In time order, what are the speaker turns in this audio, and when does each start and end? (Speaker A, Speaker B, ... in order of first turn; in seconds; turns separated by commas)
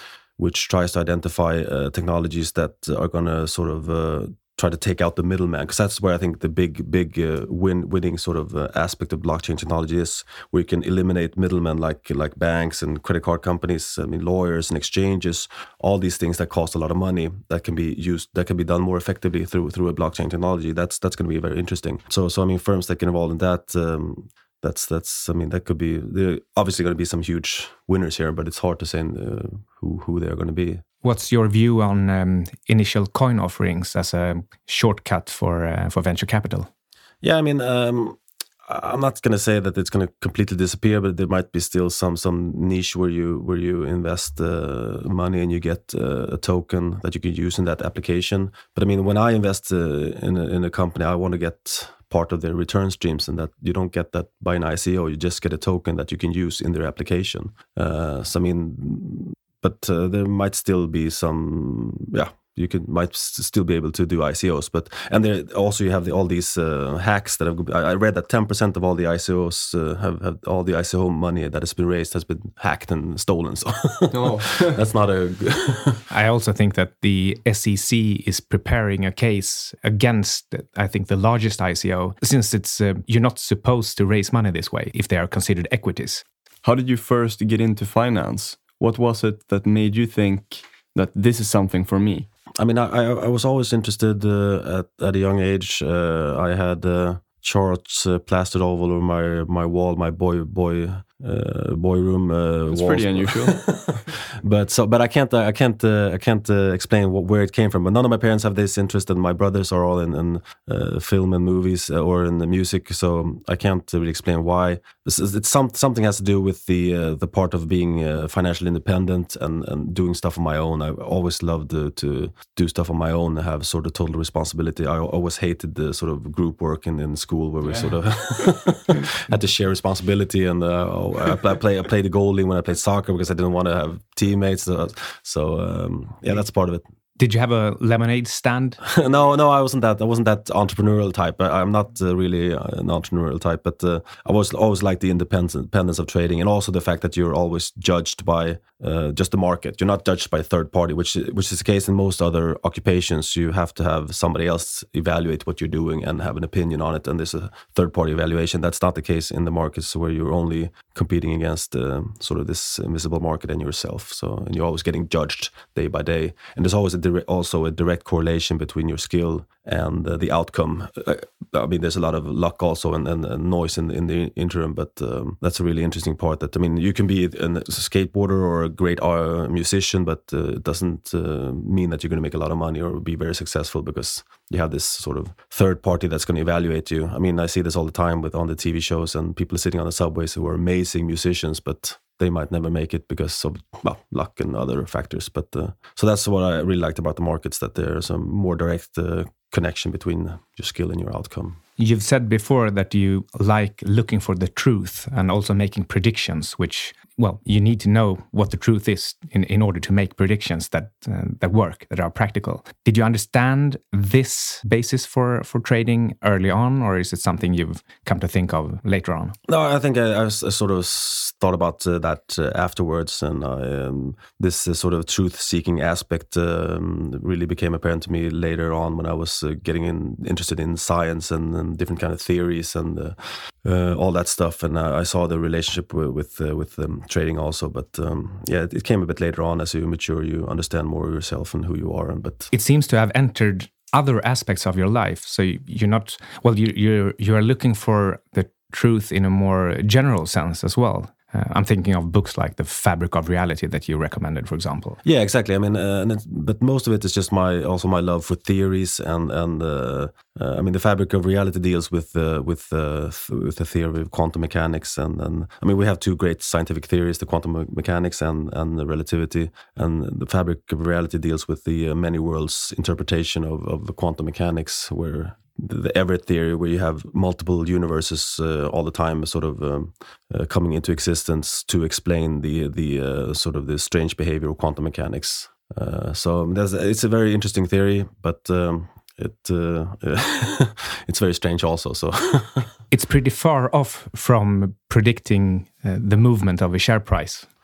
Speaker A: 0.4-30.8, Speaker B: 31.0-36.7, Speaker A: 37.2-76.0, Speaker C: 74.1-74.8, Speaker B: 76.1-86.2, Speaker C: 86.6-92.3, Speaker A: 92.6-136.8, Speaker C: 102.7-103.6, Speaker B: 137.2-138.8, Speaker A: 138.8-201.6, Speaker B: 201.8-219.3, Speaker A: 219.5-242.5, Speaker B: 242.5-255.0, Speaker A: 255.0-292.7, Speaker B: 292.9-297.5